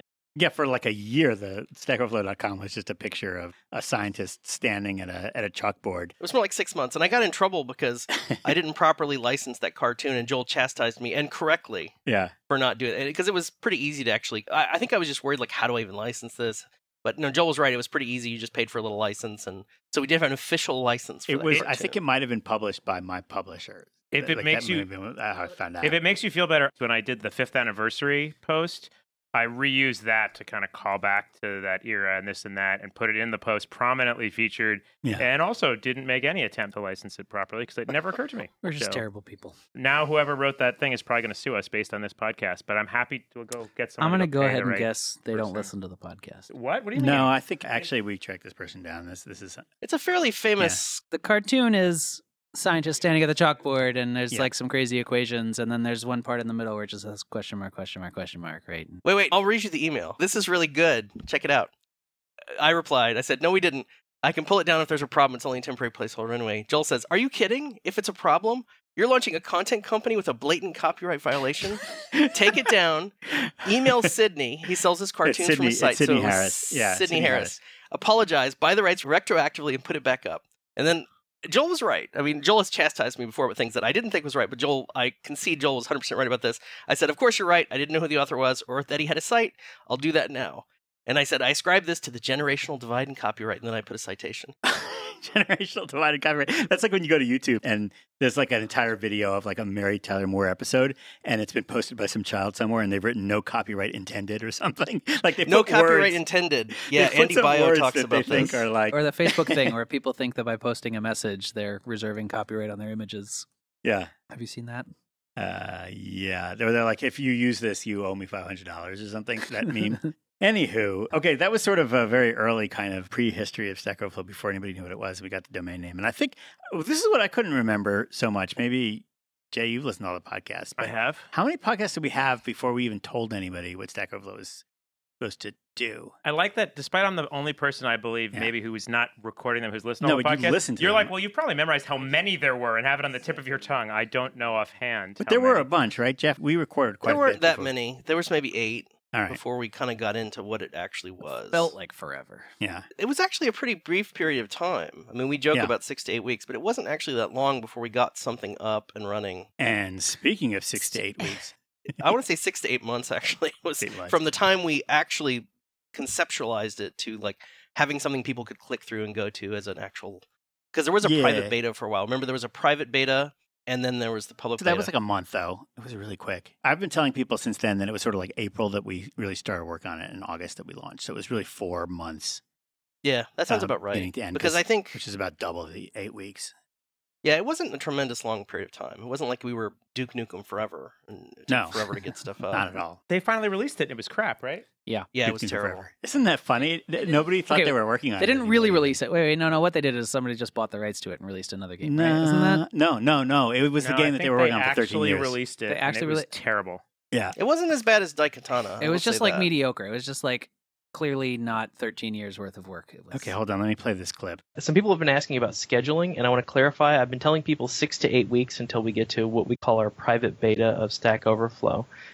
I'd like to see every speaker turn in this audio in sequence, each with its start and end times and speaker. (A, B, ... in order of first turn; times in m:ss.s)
0:00.4-0:06.1 A
0:06.2-0:12.0 B
0:12.1-0:12.3 A
0:12.5-0:22.0 B
0:21.3-0:26.0 A
0:24.1-0:24.9 C
0:25.8-0:39.0 C
0:38.6-0:39.6 D
0:39.8-0:45.7 C
0:44.0-0:46.5 D
0:46.5-0:47.8 C
0:47.0-0:49.7 A
0:49.8-0:51.0 B
0:51.1-0:59.0 D
0:59.0-1:01.7 B
1:02.6-1:34.6 B
1:12.0-1:12.5 A
1:13.4-1:14.1 A
1:15.2-1:17.6 A
1:34.6-1:46.2 A
1:45.5-1:48.7 B
1:46.8-1:49.8 A
1:48.9-1:53.5 D
1:53.8-1:54.1 A
1:54.3-1:54.9 D
1:55.4-2:14.6 A
2:10.8-2:11.3 C
2:15.2-2:16.2 A
2:16.2-2:25.7 C
2:20.0-2:21.1 A
2:25.2-2:27.7 A
2:27.0-2:31.7 B
2:29.1-2:29.4 A
2:31.5-2:32.5 D
2:32.6-2:32.8 A
2:33.0-2:39.5 B
2:39.6-2:41.5 A
2:41.9-2:54.9 B
2:43.8-2:44.2 A
2:51.0-2:51.6 A
2:54.6-3:02.4 A
3:03.0-3:05.0 B
3:03.5-3:06.5 A
3:07.2-3:12.7 B
3:11.5-3:11.9 A
3:12.5-3:13.0 A
3:13.1-3:14.7 C
3:15.1-3:15.9 B
3:15.2-3:19.0 A
3:17.5-3:22.6 D
3:21.8-3:25.4 A
3:23.8-3:26.8 C
3:25.7-3:26.3 D
3:27.4-3:29.5 B
3:28.8-3:33.3 D
3:33.1-3:34.4 A
3:34.6-3:41.9 E